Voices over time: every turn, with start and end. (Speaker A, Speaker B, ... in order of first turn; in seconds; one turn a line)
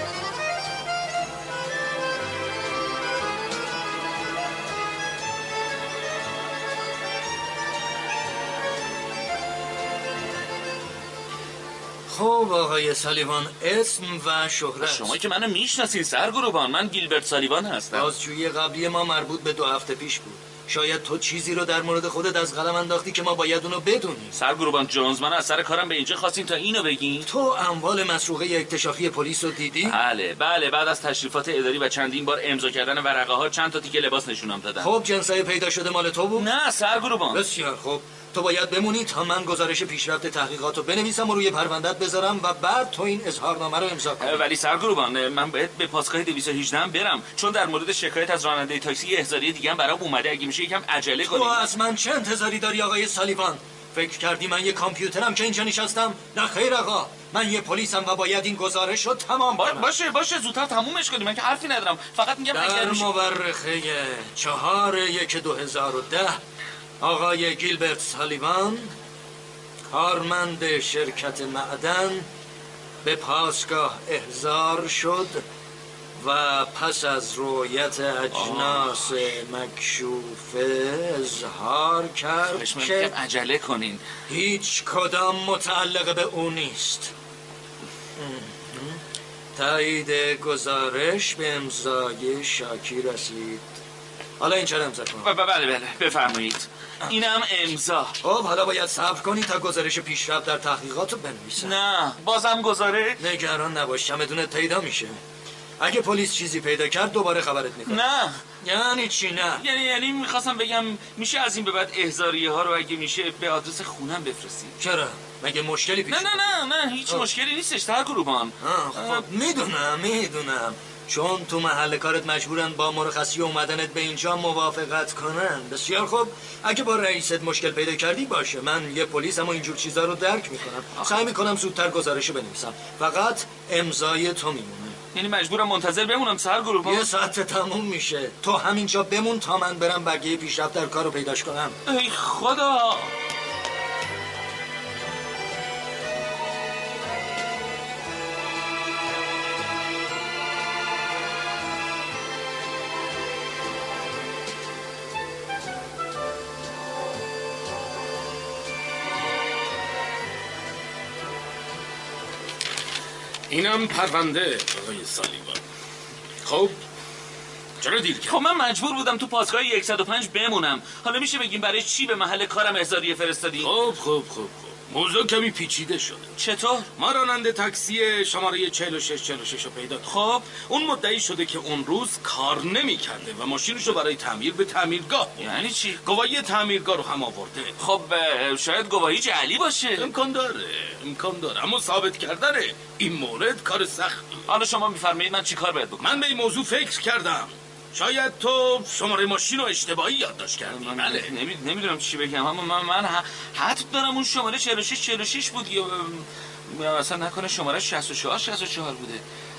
Speaker A: 12.1-15.1
Speaker B: 14.8-18.1
Speaker A: 17.9-24.4
Speaker B: 24.4-27.3
Speaker A: 27.2-30.0
Speaker B: 29.9-34.9
Speaker A: 34.8-36.5
Speaker B: 36.4-37.4
Speaker A: 37.3-44.4
Speaker B: 44.2-51.7
Speaker A: 51.2-59.9
Speaker B: 59.6-63.1
Speaker A: 62.5-66.4
Speaker A: 67.0-68.9
Speaker A: 69.9-72.3
Speaker A: 73.0-75.4
Speaker A: 76.2-83.1
Speaker B: 78.3-79.0
Speaker B: 82.5-84.0
Speaker A: 84.3-87.1
Speaker A: 88.2-89.0
Speaker A: 89.6-93.6
Speaker A: 94.4-95.3
Speaker B: 95.2-98.2
Speaker A: 98.2-101.7
Speaker B: 101.6-103.2
Speaker A: 103.2-105.2
Speaker A: 105.8-108.0
Speaker B: 107.9-108.4
Speaker A: 108.6-109.6
Speaker B: 109.6-114.8
Speaker A: 114.8-116.6
Speaker B: 116.1-119.2
Speaker A: 118.6-135.0
Speaker B: 135.1-137.1
Speaker A: 136.8-141.8
Speaker B: 141.9-143.1
Speaker C: 163.5-165.6
Speaker C: 166.4-166.8
Speaker C: 167.8-168.4
Speaker B: 168.3-173.7
Speaker C: 173.6-176.3
Speaker B: 176.4-176.9
Speaker C: 177.0-185.5
Speaker B: 180.1-180.4
Speaker B: 185.4-186.0
Speaker C: 186.0-187.8
Speaker B: 187.8-190.1
Speaker C: 190.0-194.4
Speaker B: 194.5-196.2
Speaker C: 196.0-201.3
Speaker B: 200.7-209.2